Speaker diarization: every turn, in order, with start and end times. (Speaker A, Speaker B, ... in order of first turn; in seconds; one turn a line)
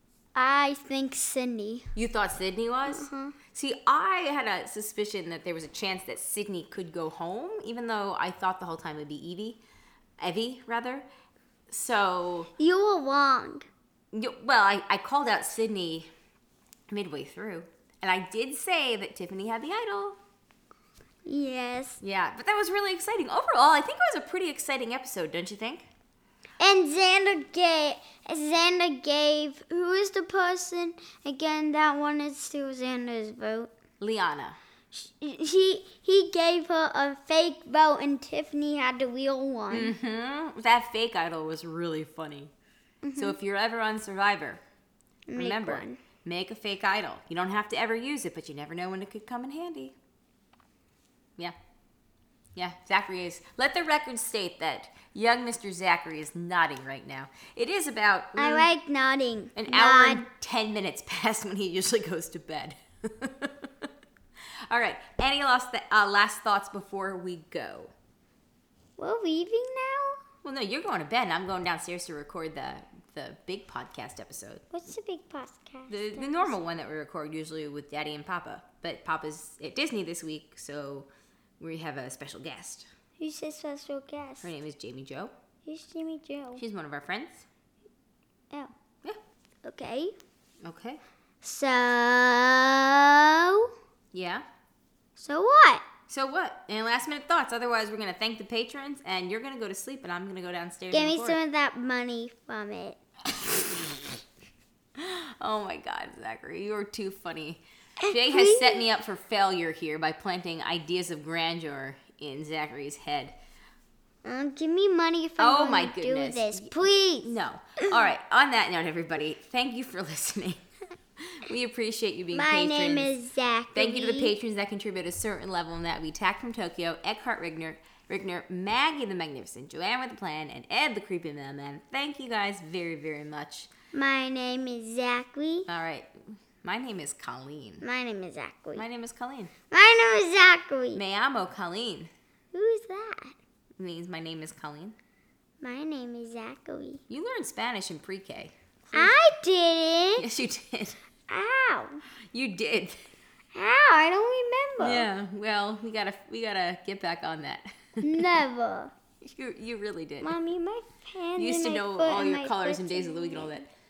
Speaker A: 0.3-1.9
Speaker B: 1.9-9.6
Speaker A: 2.9-3.4
Speaker B: 10.2-11.1
Speaker B: 11.7-12.5
Speaker A: 12.6-13.7
Speaker B: 14.1-16.1
Speaker B: 16.9-20.2
Speaker A: 21.2-22.0
Speaker B: 22.0-25.9
Speaker A: 26.6-33.7
Speaker B: 34.0-34.6
Speaker A: 34.9-39.9
Speaker B: 39.7-42.5
Speaker A: 43.0-43.4
Speaker B: 43.1-44.6
Speaker A: 45.3-46.0
Speaker B: 45.4-49.9
Speaker B: 52.5-58.7
Speaker A: 58.3-60.2
Speaker B: 59.5-63.9
Speaker B: 64.7-67.9
Speaker A: 69.0-70.2
Speaker B: 70.4-74.6
Speaker A: 74.7-76.6
Speaker B: 75.9-81.1
Speaker B: 81.6-82.9
Speaker A: 83.2-84.5
Speaker B: 84.4-85.3
Speaker A: 85.7-86.6
Speaker B: 86.6-87.5
Speaker A: 89.6-90.1
Speaker B: 90.6-91.0
Speaker A: 91.4-93.7
Speaker B: 94.1-94.4
Speaker A: 95.2-95.8
Speaker B: 96.1-101.4
Speaker A: 100.9-103.0
Speaker B: 103.4-104.0
Speaker B: 105.0-113.3
Speaker A: 108.0-108.8
Speaker A: 114.2-117.3
Speaker B: 115.4-120.6
Speaker B: 121.2-123.1
Speaker A: 122.3-124.3
Speaker B: 123.7-133.7
Speaker A: 133.9-135.7
Speaker B: 135.7-136.1
Speaker B: 136.6-137.8
Speaker A: 137.8-138.8
Speaker B: 138.8-139.5
Speaker A: 139.7-141.0
Speaker B: 140.9-142.1
Speaker A: 142.5-143.3
Speaker B: 143.8-144.9
Speaker A: 145.6-147.0
Speaker B: 147.1-149.2
Speaker A: 148.9-150.2
Speaker B: 150.2-151.0
Speaker A: 151.3-152.0
Speaker B: 152.3-152.9
Speaker A: 153.5-155.1
Speaker B: 154.8-158.3
Speaker A: 158.0-158.9
Speaker B: 159.2-160.3
Speaker A: 160.2-163.7
Speaker B: 161.4-163.7